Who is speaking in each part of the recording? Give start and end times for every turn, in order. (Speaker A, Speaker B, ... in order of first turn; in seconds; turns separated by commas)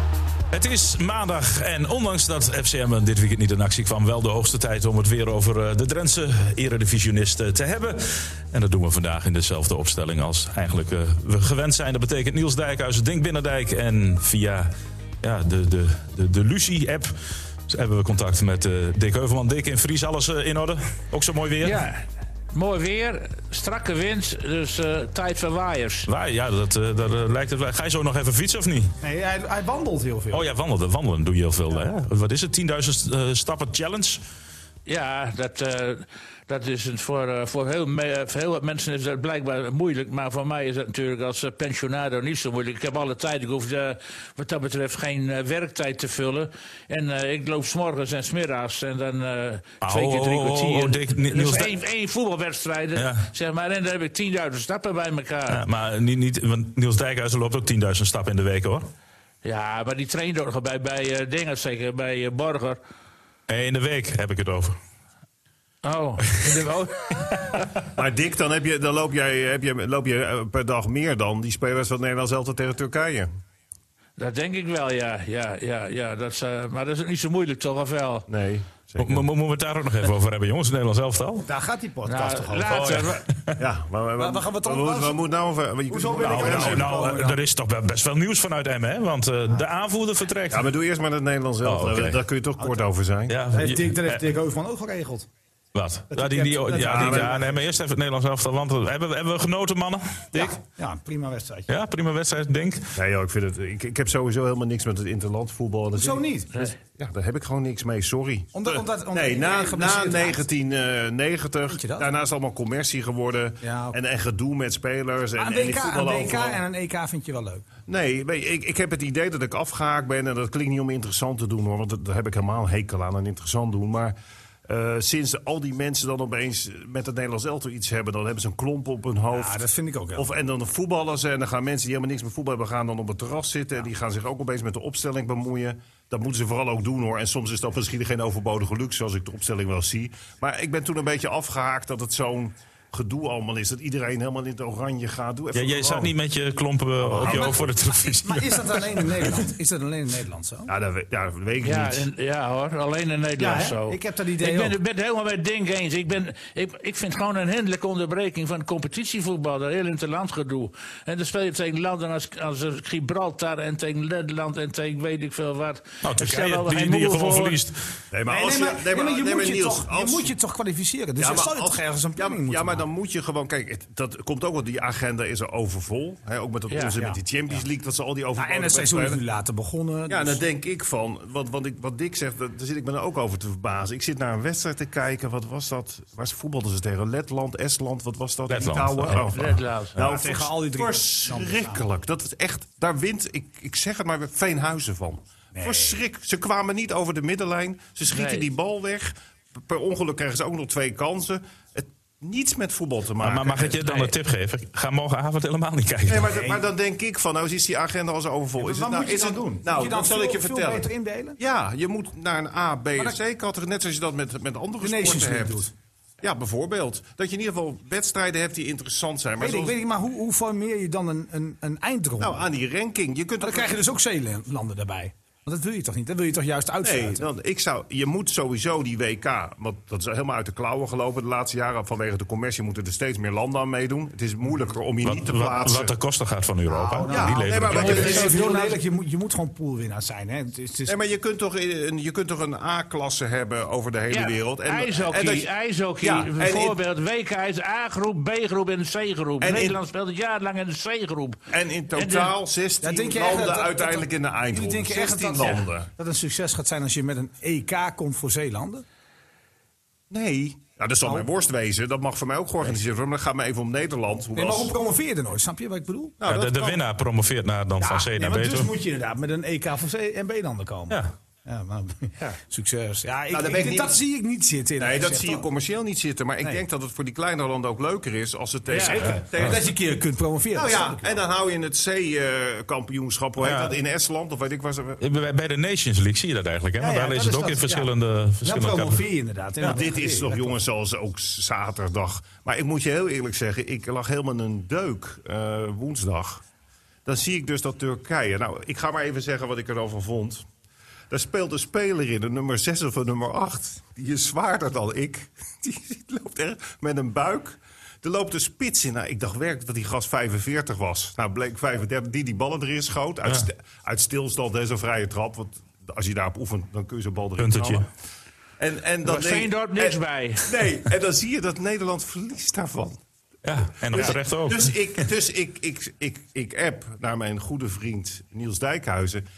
Speaker A: 0.5-21.8, Speaker B: 21.6-26.1, Speaker A: 26.1-28.9, Speaker C: 29.0-30.5, Speaker A: 30.3-34.2, Speaker B: 34.9-55.6, Speaker A: 49.8-51.7, Speaker A: 53.0-53.3, Speaker A: 55.5-58.9, Speaker B: 59.4-62.8, Speaker A: 63.5-64.8, Speaker B: 65.8-67.6, Speaker D: 68.0-73.3, Speaker B: 74.2-78.3, Speaker D: 78.3-79.3, Speaker A: 79.0-81.5, Speaker C: 81.4-83.1, Speaker B: 82.0-83.2, Speaker D: 82.7-83.0, Speaker D: 83.6-87.0, Speaker C: 84.2-85.2, Speaker C: 85.9-87.4, Speaker A: 86.2-90.7, Speaker D: 90.5-93.3, Speaker A: 91.6-92.2, Speaker A: 93.3-94.2, Speaker C: 93.5-95.3, Speaker A: 95.7-100.6, Speaker C: 96.1-97.6, Speaker D: 96.8-97.5, Speaker C: 100.3-101.7, Speaker A: 101.7-103.0, Speaker D: 102.9-116.6, Speaker C: 105.9-106.6, Speaker C: 108.5-110.4, Speaker C: 111.7-112.1, Speaker C: 113.6-114.0, Speaker C: 115.3-117.7, Speaker D: 117.9-124.1, Speaker D: 124.7-129.6, Speaker C: 129.3-130.3, Speaker D: 130.1-146.1, Speaker A: 145.5-149.3, Speaker D: 147.0-147.6, Speaker C: 147.2-150.7, Speaker D: 150.7-152.1, Speaker B: 151.6-167.6, Speaker C: 153.4-154.8, Speaker A: 166.0-167.8, Speaker D: 168.1-170.3, Speaker C: 168.3-172.8, Speaker D: 171.2-179.2, Speaker B: 176.7-176.9, Speaker C: 176.9-177.6, Speaker C: 178.3-180.4, Speaker D: 180.1-204.1, Speaker A: 188.5-189.6, Speaker B: 189.1-190.0, Speaker C: 190.0-191.8, Speaker C: 195.5-196.0, Speaker B: 198.1-198.5, Speaker A: 203.2-206.4, Speaker D: 206.1-215.7, Speaker C: 206.2-206.6, Speaker C: 208.6-211.4, Speaker C: 214.8-215.7, Speaker D: 216.2-219.8, Speaker C: 219.4-222.4, Speaker D: 222.2-223.8, Speaker C: 223.4-227.2, Speaker D: 226.8-235.9, Speaker A: 235.0-238.2, Speaker C: 236.7-240.9, Speaker D: 237.1-238.7, Speaker B: 237.7-238.7, Speaker D: 240.9-245.5, Speaker B: 244.1-252.3, Speaker D: 246.0-246.8, Speaker D: 249.4-249.8, Speaker D: 251.5-255.9, Speaker C: 252.8-258.8, Speaker D: 260.1-264.7, Speaker C: 264.3-266.2, Speaker D: 266.2-266.8, Speaker A: 266.2-268.7, Speaker C: 267.8-275.4, Speaker D: 273.3-274.0, Speaker D: 274.8-279.7, Speaker B: 278.7-279.1, Speaker C: 278.8-281.1, Speaker A: 279.2-279.5, Speaker D: 280.5-285.0, Speaker A: 283.4-283.8, Speaker A: 285.0-289.0, Speaker C: 286.8-290.6, Speaker D: 289.6-296.4, Speaker D: 297.0-300.4, Speaker D: 301.1-317.9, Speaker A: 317.4-317.9, Speaker D: 318.6-323.0, Speaker B: 319.0-320.6, Speaker A: 323.4-325.0, Speaker D: 323.9-329.2